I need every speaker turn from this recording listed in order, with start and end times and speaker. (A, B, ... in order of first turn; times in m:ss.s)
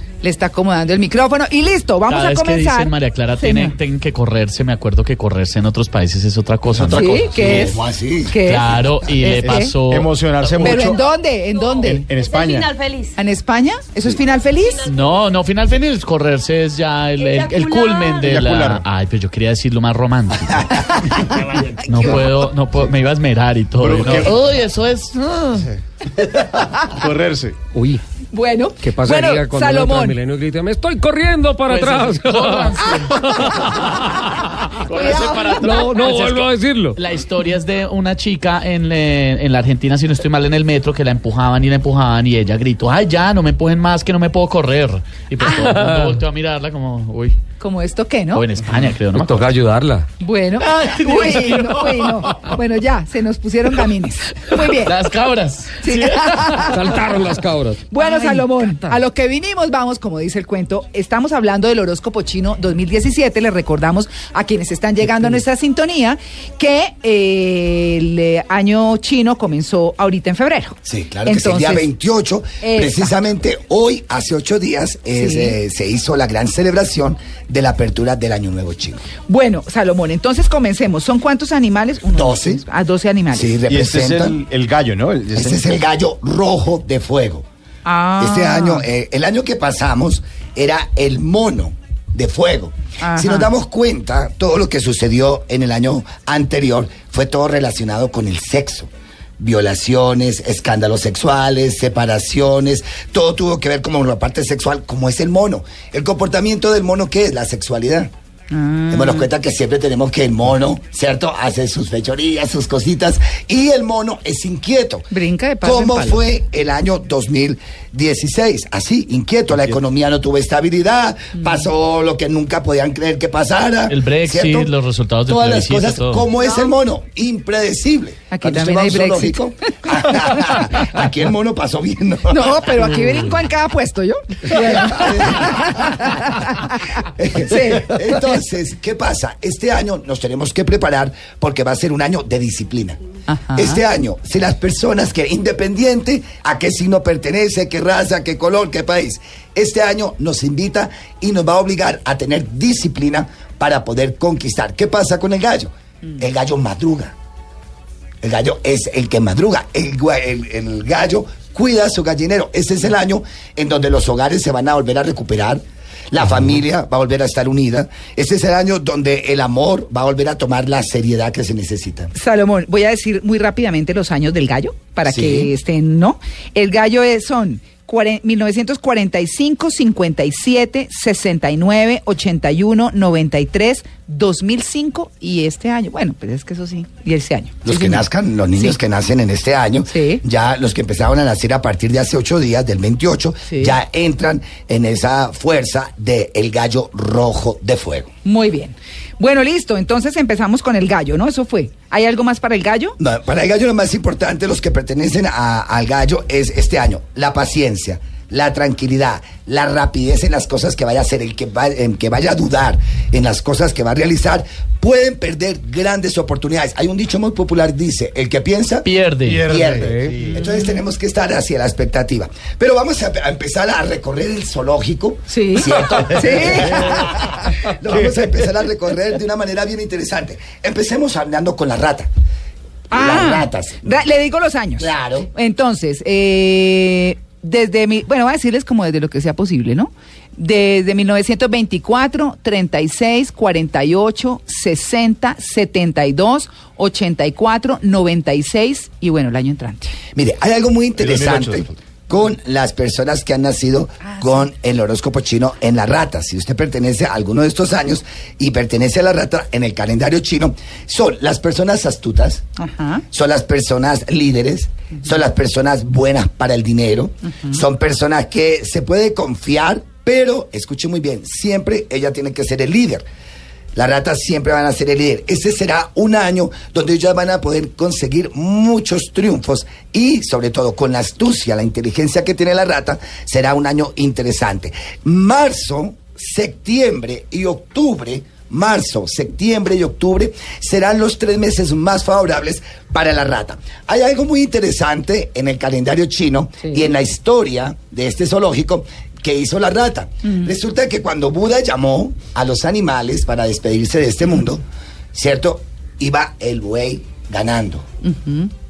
0:00.2-0:03.8 A
0:02.1-0:07.7 B
0:06.7-0:07.8 C
0:06.9-0:09.8 A
0:07.5-0:09.3 D
0:08.4-0:10.9 B
0:09.4-0:11.0 C
0:10.6-0:12.1 A
0:11.5-0:13.2 E
0:11.8-0:12.7 C
0:13.2-0:14.8 A
0:14.4-0:15.2 E
0:14.9-0:20.9 B
0:17.2-0:18.4 E
0:17.5-0:18.8 C
0:20.7-0:22.1 A
0:21.3-0:22.3 C
0:21.9-0:25.6 B
0:23.8-0:24.4 C
0:25.6-0:27.6 C
0:27.7-0:28.0 F
0:28.3-0:30.2 A
0:28.8-0:34.8 F
0:31.7-0:33.9 B
0:33.2-0:33.6 A
0:34.8-0:47.4 B
0:34.9-0:35.7 A
0:35.4-0:37.0 F
0:45.5-0:46.2 F
0:47.6-0:48.4 A
0:48.3-0:49.5 B
0:49.2-0:50.1 F
0:50.2-0:55.0 A
0:50.7-0:51.7 B
0:54.7-0:56.5 B
0:55.8-0:56.9 A
0:56.6-0:59.0 F
0:57.9-1:11.9 A
1:10.8-1:19.0 D
1:12.6-1:13.1 A
1:15.2-1:15.6 A
1:19.3-1:23.5 A
1:22.1-1:22.6 D
1:23.3-1:24.4 D
1:23.7-1:25.6 C
1:25.3-1:27.5 D
1:27.8-1:28.9 A
1:28.2-1:48.1 D
1:33.0-1:33.5 A
1:48.5-1:49.3 A
1:48.9-1:55.1 D
1:55.1-1:56.2 A
1:55.6-2:04.7 D
2:03.9-2:06.3 B
2:05.3-2:12.7 D
2:08.3-2:09.4 A
2:12.3-2:16.8 A
2:14.5-2:16.1 D
2:17.0-2:23.0 D
2:17.5-2:18.2 A
2:23.3-2:23.8 A
2:23.6-2:37.2 D
2:38.2-2:52.1 D
2:52.2-3:08.0 A
2:55.1-2:55.5 D
3:07.6-3:18.1 D
3:09.9-3:10.2 A
3:13.5-3:13.8 A
3:18.2-3:23.0 A
3:23.0-3:38.9 D
3:38.8-3:39.4 B
3:39.2-3:40.4 C
3:39.4-3:52.1 D
3:39.8-3:40.2 F
3:45.3-3:47.1 A
3:47.9-3:48.3 C
3:52.9-3:53.9 D
3:52.9-4:10.0 A
3:54.8-3:55.3 D
4:10.1-4:22.5 D
4:11.0-4:11.7 C
4:22.6-4:23.0 A
4:23.1-4:33.0 D
4:33.8-5:07.9 D
5:08.0-5:08.5 A